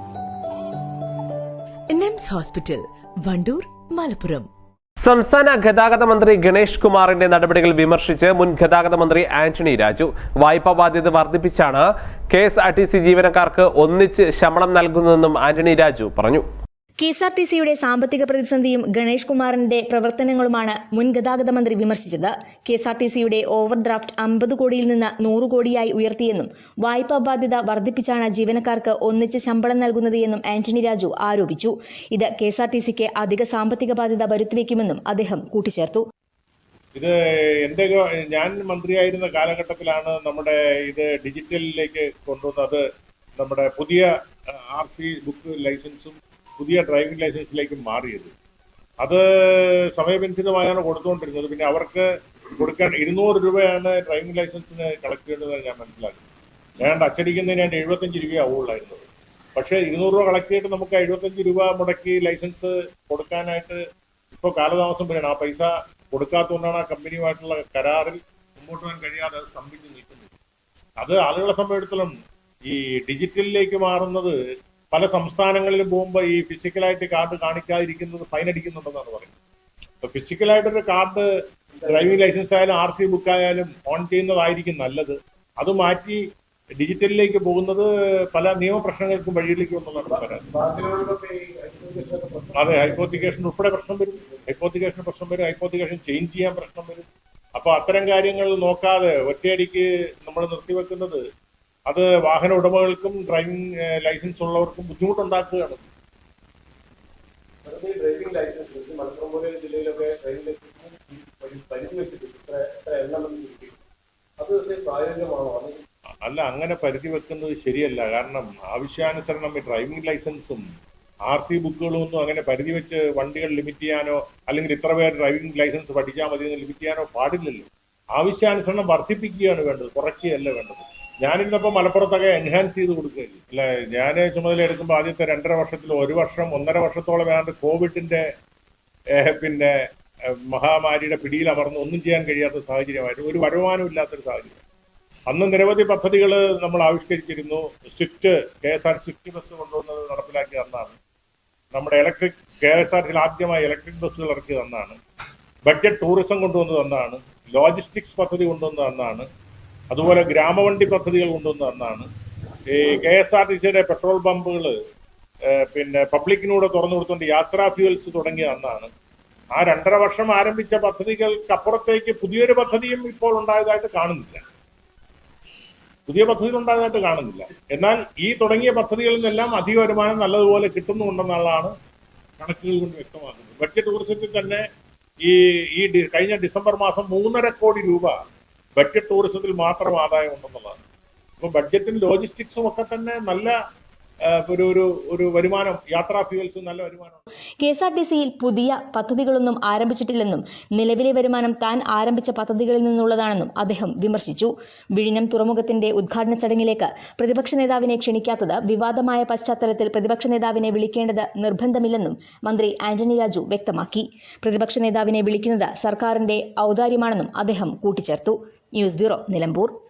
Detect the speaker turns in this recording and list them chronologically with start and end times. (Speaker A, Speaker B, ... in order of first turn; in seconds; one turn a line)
Speaker A: 1.9-4.5
Speaker B: 5.0-16.4
Speaker C: 17.0-36.0
Speaker D: 36.9-42.8
Speaker D: 43.4-44.1
Speaker D: 44.7-48.3
Speaker D: 49.0-52.0
Speaker D: 52.6-56.2
Speaker D: 56.8-63.8
Speaker D: 64.3-70.3
Speaker D: 71.0-72.1
Speaker D: 72.6-74.3
Speaker D: 74.9-79.3
Speaker D: 80.0-81.2
Speaker E: 81.7-82.3
Speaker D: 81.9-86.2
Speaker D: 86.8-90.4
Speaker E: 90.1-93.5
Speaker D: 92.5-97.0
Speaker E: 94.2-94.5
Speaker D: 97.6-101.2
Speaker D: 101.9-105.9
Speaker E: 107.6-113.8
Speaker E: 114.4-115.8
Speaker D: 116.2-120.6
Speaker D: 121.3-138.2
Speaker D: 139.1-139.8
Speaker D: 140.3-144.6
Speaker D: 145.3-150.9
Speaker D: 151.7-155.0
Speaker D: 155.7-159.2
Speaker D: 159.9-162.1
Speaker D: 162.7-164.8
Speaker D: 165.5-168.9
Speaker D: 169.5-174.4
Speaker D: 176.1-181.7
Speaker D: 182.4-184.6
Speaker D: 185.2-188.1
Speaker D: 188.8-190.8
Speaker D: 191.4-193.5
Speaker D: 194.2-197.2
Speaker C: 197.6-219.7